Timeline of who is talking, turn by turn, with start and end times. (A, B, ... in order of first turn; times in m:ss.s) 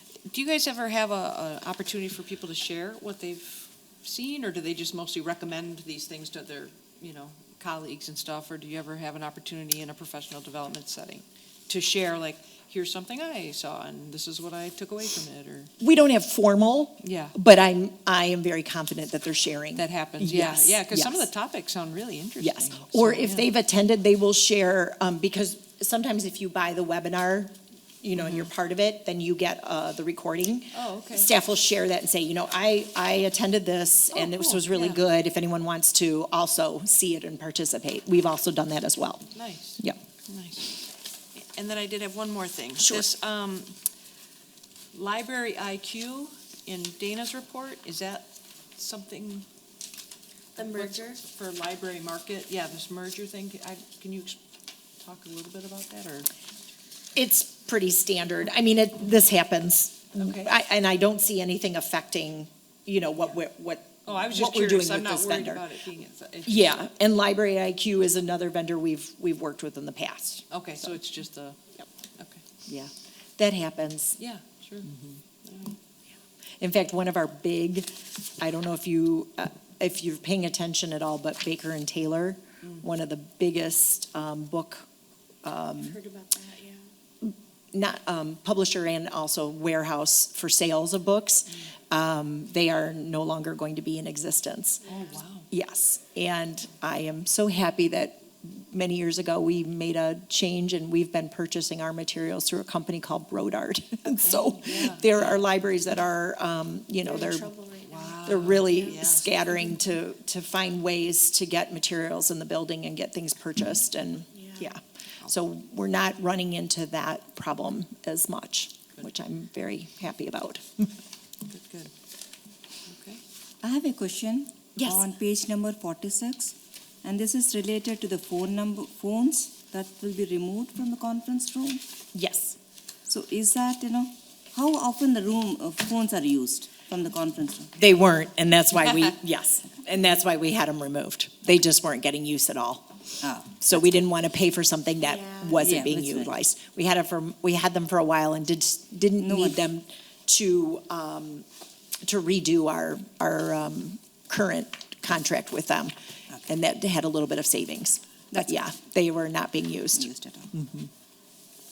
0:00.3-0:15.7 A
0:15.8-0:21.3 B
0:17.0-0:17.3 A
0:19.8-0:23.4 A
0:22.4-0:39.3 B
0:28.2-0:28.4 A
0:30.7-0:31.3 A
0:34.1-0:35.0 A
0:39.3-0:40.7 A
0:41.4-0:43.7 A
0:42.8-0:43.1 B
0:44.9-0:49.4 A
0:50.6-0:54.4 A
0:50.9-0:51.1 C
0:55.0-0:56.3 A
0:57.1-1:05.6 B
1:00.2-1:00.5 A
1:04.0-1:06.8 A
1:06.4-1:10.4 B
1:10.5-1:11.6 A
1:12.2-1:12.4 A
1:12.7-1:14.2 B
1:14.2-1:15.8 A
1:16.6-1:17.9 B
1:18.4-1:24.9 B
1:25.4-1:26.0 B
1:25.9-1:26.8 C
1:27.2-1:34.9 B
1:34.9-1:35.5 A
1:35.5-1:47.5 B
1:44.1-1:45.3 A
1:47.1-1:48.2 C
1:47.9-1:49.3 A
1:48.2-2:00.9 B
1:54.4-1:54.7 C
2:01.5-2:01.9 A
2:02.8-2:03.2 A
2:03.6-2:11.8 D
2:04.8-2:05.0 B
2:12.1-2:12.6 B
2:13.1-2:17.7 D
2:17.8-2:23.0 B
2:23.2-2:23.6 D
2:23.6-2:31.4 B
2:25.6-2:26.3 D
2:29.2-2:29.6 D
2:32.0-2:40.9 B
2:38.3-2:38.6 D
2:39.9-2:40.5 D